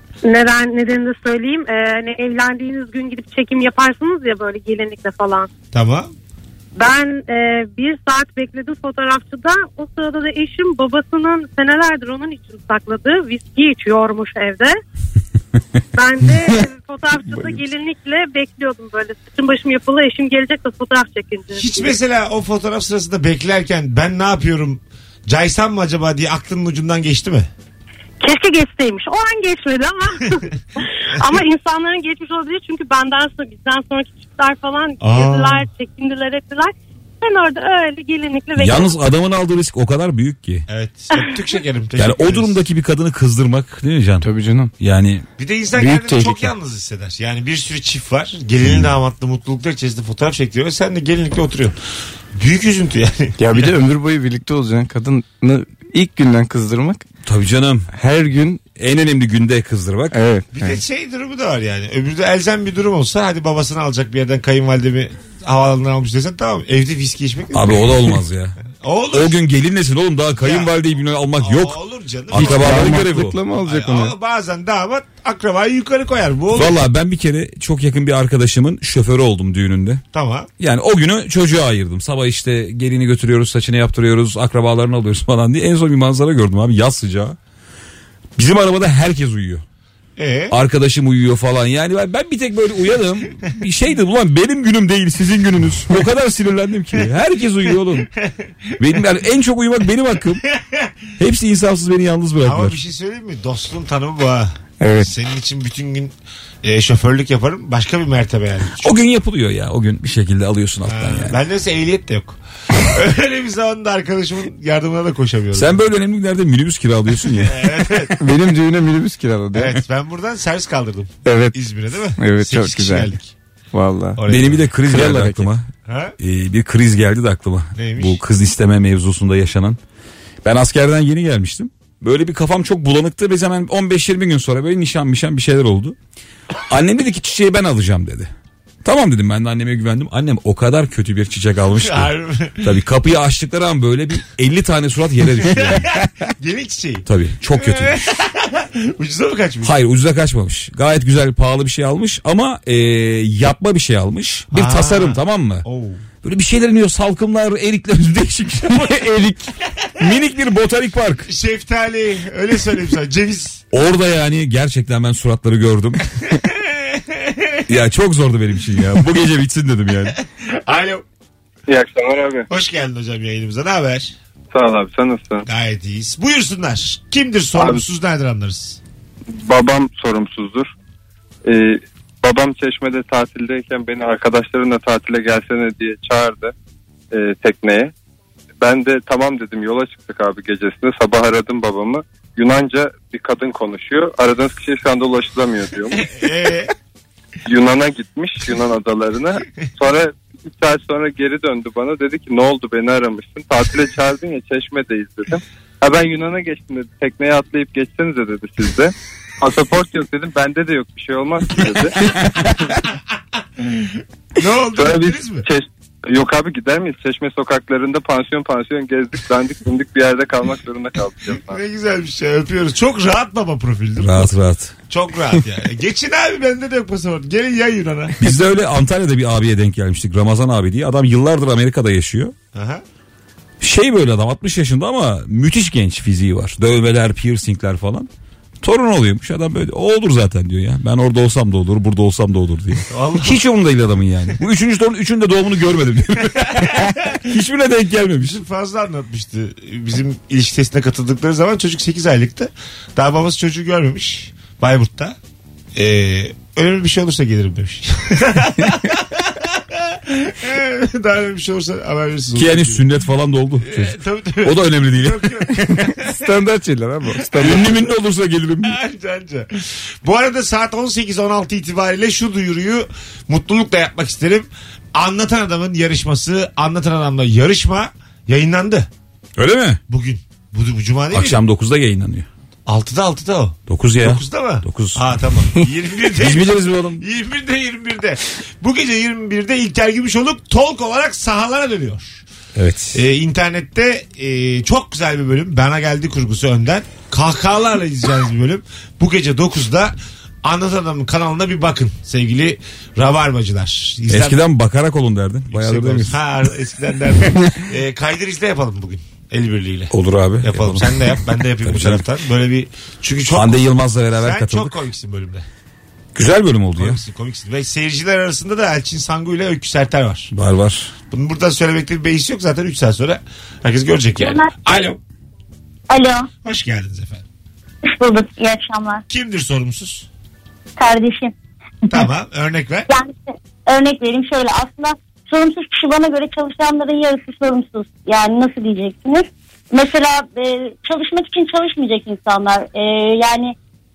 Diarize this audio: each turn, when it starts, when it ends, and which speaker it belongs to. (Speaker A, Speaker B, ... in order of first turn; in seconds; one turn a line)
Speaker A: 0.2-5.5
Speaker B: 5.7-6.1
Speaker A: 6.8-14.7
Speaker A: 15.9-21.6
Speaker B: 21.6-27.5
Speaker A: 28.2-38.9
Speaker B: 35.0-35.7
Speaker C: 38.6-40.7
Speaker B: 40.7-42.5
Speaker C: 42.0-44.2
Speaker D: 44.2-44.7
Speaker C: 44.8-45.3
Speaker B: 45.4-51.8
Speaker D: 45.8-46.5
Speaker C: 48.6-48.9
Speaker B: 52.3-53.7
Speaker D: 53.4-57.0
Speaker C: 57.2-57.9
Speaker D: 57.9-58.6
Speaker C: 58.8-60.1
Speaker D: 60.1-60.8
Speaker B: 60.5-68.1
Speaker C: 67.5-68.5
Speaker B: 68.8-69.3
Speaker C: 69.1-71.8
Speaker B: 70.4-70.7
Speaker B: 71.4-73.0
Speaker C: 72.3-73.4
Speaker D: 72.3-74.1
Speaker B: 73.6-76.8
Speaker C: 76.5-80.0
Speaker B: 80.1-80.5
Speaker C: 80.6-87.4
Speaker C: 88.4-89.6
Speaker B: 90.2-90.5
Speaker C: 90.5-98.1
Speaker B: 98.0-98.3
Speaker C: 98.8-100.4
Speaker B: 100.5-100.9
Speaker C: 101.2-102.8
Speaker B: 102.4-108.9
Speaker D: 104.8-105.1
Speaker C: 108.8-111.4
Speaker B: 110.8-115.8
Speaker C: 115.5-117.9
Speaker B: 117.3-118.2
Speaker D: 118.2-119.8
Speaker B: 119.5-123.3
Speaker D: 121.2-121.5
Speaker D: 122.2-123.1
Speaker D: 123.7-124.2
Speaker B: 124.2-124.7
Speaker C: 124.3-129.8
Speaker D: 124.8-125.5
Speaker B: 125.8-126.1
Speaker B: 127.7-128.2
Speaker C: 130.4-135.9
Speaker C: 136.7-138.3
Speaker C: 138.8-146.0
Speaker B: 141.8-142.7
Speaker B: 145.4-149.7
Speaker C: 147.1-148.1
Speaker C: 149.6-155.6
Speaker B: 154.5-156.0
Speaker C: 156.2-161.3
Speaker B: 161.3-163.6
Speaker C: 163.7-166.0
Speaker B: 166.3-167.6
Speaker C: 167.7-170.2
Speaker B: 170.3-171.0
Speaker E: 171.7-172.4
Speaker B: 172.5-174.1
Speaker E: 174.5-175.5
Speaker B: 175.4-178.8
Speaker E: 177.5-177.8
Speaker E: 179.3-180.7
Speaker E: 181.4-186.5
Speaker E: 187.1-187.9
Speaker E: 188.6-196.0
Speaker B: 196.0-196.7
Speaker E: 197.5-212.1
Speaker B: 213.6-215.5
Speaker E: 214.8-221.6
Speaker B: 221.5-224.3
Speaker C: 224.0-224.7
Speaker B: 224.9-228.2
Speaker C: 228.2-232.3
Speaker B: 232.5-232.8
Speaker C: 233.6-238.1
Speaker C: 238.6-248.4
Speaker B: 242.9-243.4
Speaker B: 246.4-247.2
Speaker B: 248.2-255.2
Speaker B: 255.7-262.8
Speaker C: 262.3-265.8
Speaker B: 263.6-266.2
Speaker D: 266.0-267.8
Speaker C: 267.4-268.8
Speaker B: 268.6-278.9
Speaker C: 279.4-279.8
Speaker B: 279.9-281.4
Speaker C: 281.1-282.3
Speaker B: 282.6-292.2
Speaker C: 283.7-285.2
Speaker C: 286.1-287.0
Speaker C: 292.6-293.0
Speaker B: 292.9-304.4
Speaker C: 304.1-306.3
Speaker B: 305.5-315.4
Speaker C: 309.9-312.0
Speaker C: 313.3-314.8
Speaker C: 316.1-317.0
Speaker B: 316.8-320.3
Speaker C: 320.3-320.9
Speaker B: 321.1-325.0
Speaker F: 324.2-324.5
Speaker F: 325.9-326.3
Speaker B: 326.4-327.2
Speaker F: 327.8-329.0
Speaker B: 329.1-330.1
Speaker F: 330.8-331.3
Speaker B: 331.9-332.9
Speaker F: 332.9-343.5